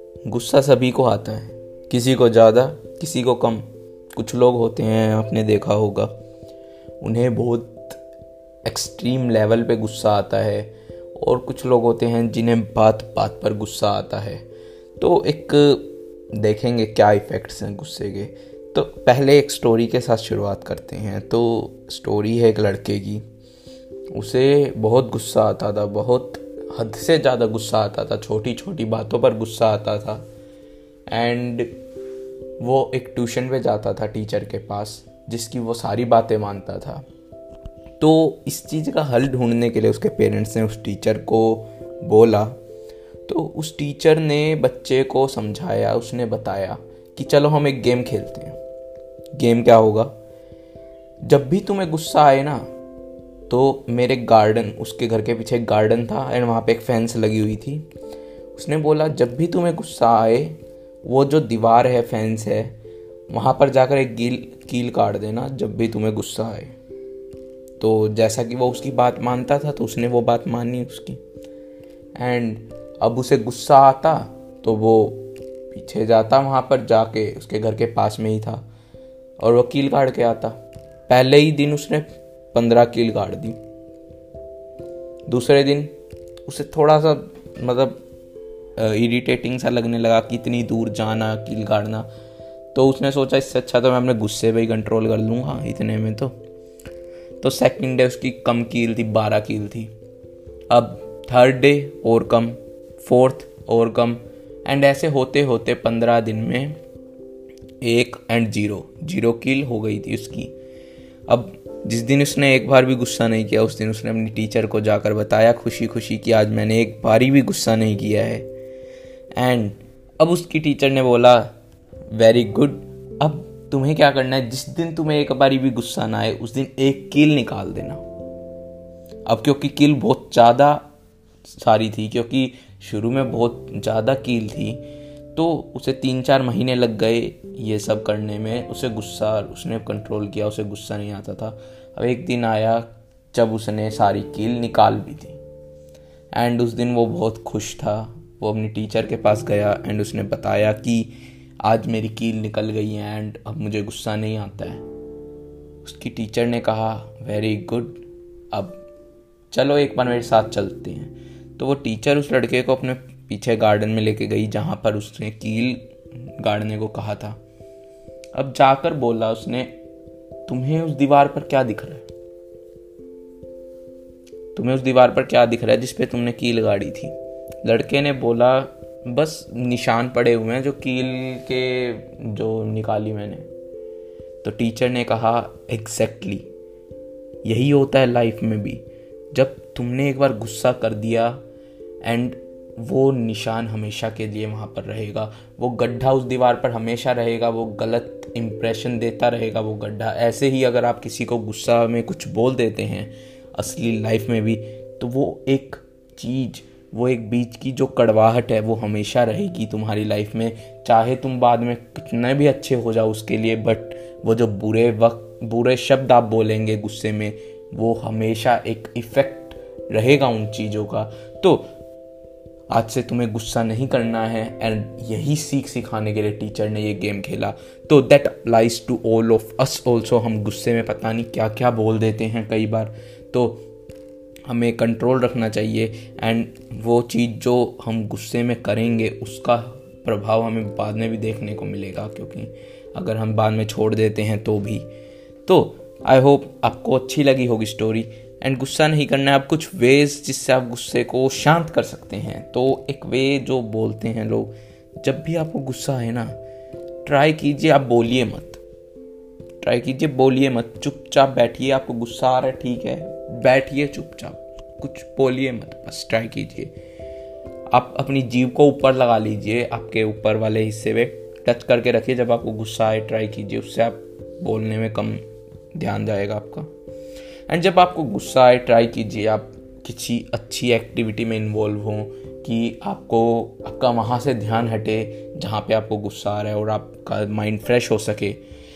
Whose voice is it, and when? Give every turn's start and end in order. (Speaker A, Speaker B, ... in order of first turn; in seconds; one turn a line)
Speaker A: 0.3-6.1
Speaker A: 7.0-8.0
Speaker A: 8.7-14.5
Speaker A: 15.0-23.2
Speaker A: 24.1-30.2
Speaker A: 31.1-31.7
Speaker A: 32.6-37.0
Speaker A: 38.0-42.6
Speaker A: 43.3-48.6
Speaker A: 49.4-50.1
Speaker A: 51.2-52.7
Speaker A: 53.5-57.9
Speaker A: 58.5-62.8
Speaker A: 63.3-66.7
Speaker A: 67.8-71.2
Speaker A: 72.2-78.7
Speaker A: 79.4-80.6
Speaker A: 81.1-83.6
Speaker A: 85.3-85.9
Speaker A: 86.5-88.0
Speaker A: 88.8-92.1
Speaker A: 92.7-96.3
Speaker A: 97.4-99.9
Speaker A: 100.7-106.8
Speaker A: 107.8-110.5
Speaker A: 111.3-118.5
Speaker A: 119.4-121.5
Speaker A: 122.1-128.0
Speaker A: 129.3-130.9
Speaker A: 131.5-145.4
Speaker A: 146.3-154.8
Speaker A: 155.8-158.8
Speaker A: 159.5-165.8
Speaker A: 166.4-167.4
Speaker A: 168.3-169.7
Speaker A: 170.5-172.1
Speaker A: 174.6-183.5
Speaker A: 184.4-186.5
Speaker A: 187.4-191.4
Speaker A: 192.0-221.7
Speaker A: 222.7-233.6
Speaker A: 234.5-244.9
Speaker A: 245.5-256.4
Speaker A: 257.1-258.6
Speaker A: 259.6-266.7
Speaker A: 267.7-276.7
Speaker A: 277.5-288.4